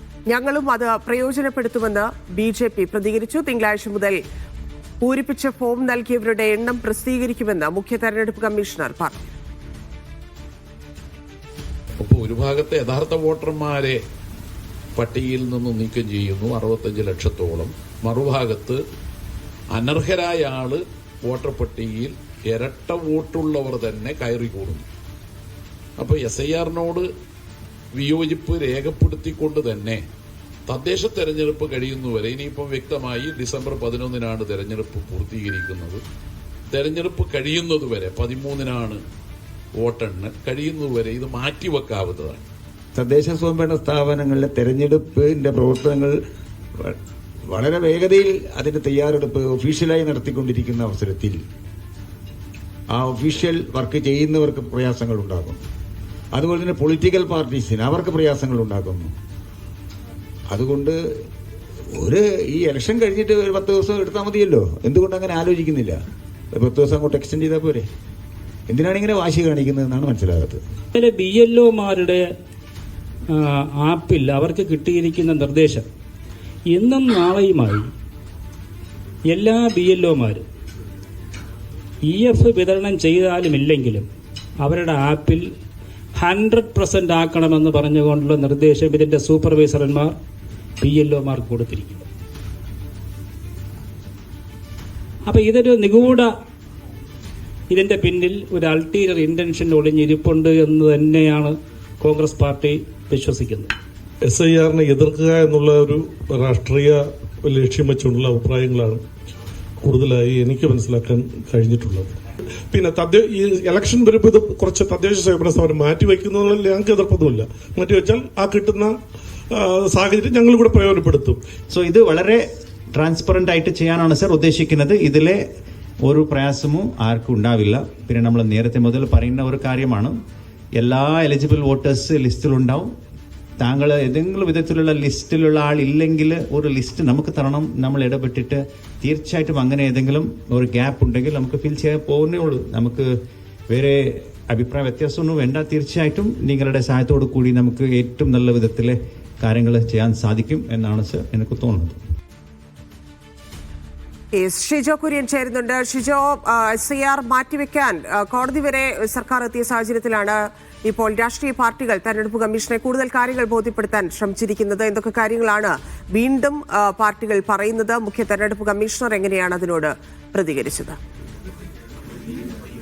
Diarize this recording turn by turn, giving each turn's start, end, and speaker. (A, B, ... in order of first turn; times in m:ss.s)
0:00.3-0:04.2 A
0:05.0-0:09.3 A
0:12.0-0:14.0 B
0:14.9-0:18.8 B
0:19.7-0:24.8 B
0:26.0-0:27.1 B
0:27.9-0:30.0 B
0:30.7-0:36.0 B
0:36.7-0:39.0 B
0:39.8-0:42.4 B
0:42.9-0:46.1 C
0:47.5-0:51.4 C
0:52.9-0:55.6 C
0:56.3-0:59.1 C
1:00.5-1:01.0 C
1:02.0-1:06.0 C
1:06.5-1:07.8 C
1:08.7-1:10.6 C
1:10.9-1:12.2 D
1:13.3-1:15.8 D
1:16.7-1:17.9 D
1:19.3-1:20.4 D
1:22.0-1:24.0 D
1:24.6-1:25.5 D
1:26.2-1:30.1 D
1:30.8-1:32.0 D
1:35.3-1:36.3 D
1:37.7-1:43.7 D
1:44.3-1:49.0 E
1:49.8-1:52.1 E
1:52.7-1:58.9 E
1:59.5-2:01.4 E
2:01.7-2:05.4 F
2:06.0-2:10.2 F
2:10.8-2:12.9 F
2:13.6-2:23.1 F
2:23.7-2:32.0 F
2:34.3-2:51.0 A